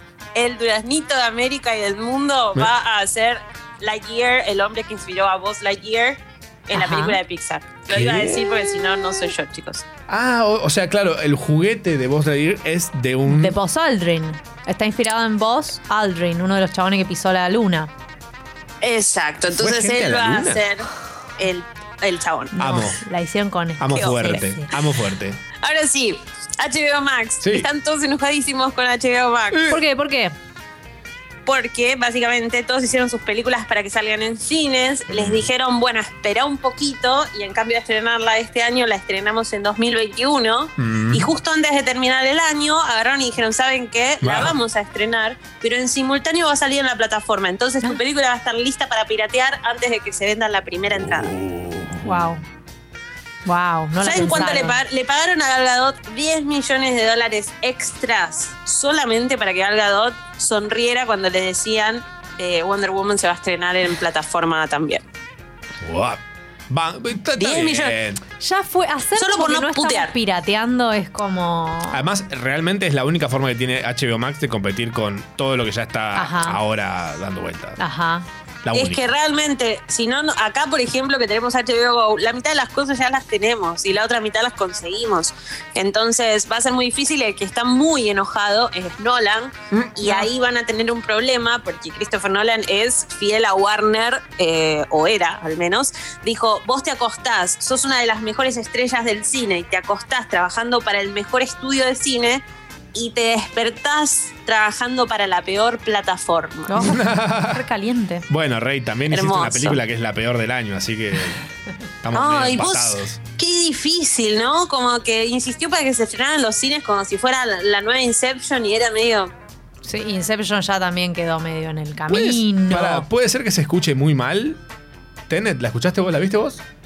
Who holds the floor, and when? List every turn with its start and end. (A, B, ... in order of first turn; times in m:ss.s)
0:00.4-0:09.8 A
0:06.7-0:07.2 B
0:07.9-0:08.4 C
0:10.1-0:13.6 C
0:13.3-0:17.9 B
0:18.8-0:20.9 A
0:19.5-0:20.6 C
0:21.4-0:22.5 A
0:22.6-0:24.7 B
0:22.6-0:23.0 C
0:23.8-0:25.4 C
0:25.6-0:29.6 A
0:27.4-0:27.7 C
0:29.5-0:29.8 C
0:29.7-0:30.3 B
0:31.5-0:51.3 A
0:35.1-0:35.4 C
0:40.8-0:41.3 C
0:44.2-0:44.6 C
0:50.9-0:52.3 C
0:52.0-0:52.4 B
0:53.5-0:54.8 B
0:54.0-1:05.0 A
1:05.8-1:08.2 C
1:07.4-1:08.0 A
1:08.4-1:12.0 B
1:09.2-1:10.1 A
1:11.9-1:17.8 C
1:16.2-1:16.6 B
1:17.8-1:18.3 B
1:18.6-1:19.0 C
1:18.7-1:42.4 A
1:42.9-1:46.7 A
1:46.7-1:48.3 B
1:46.8-1:47.6 C
1:48.3-1:51.4 C
1:49.1-1:49.8 A
1:52.0-1:53.2 C
1:52.1-1:59.3 A
1:59.8-2:03.1 B
2:02.1-2:04.6 C
2:05.3-2:06.6 C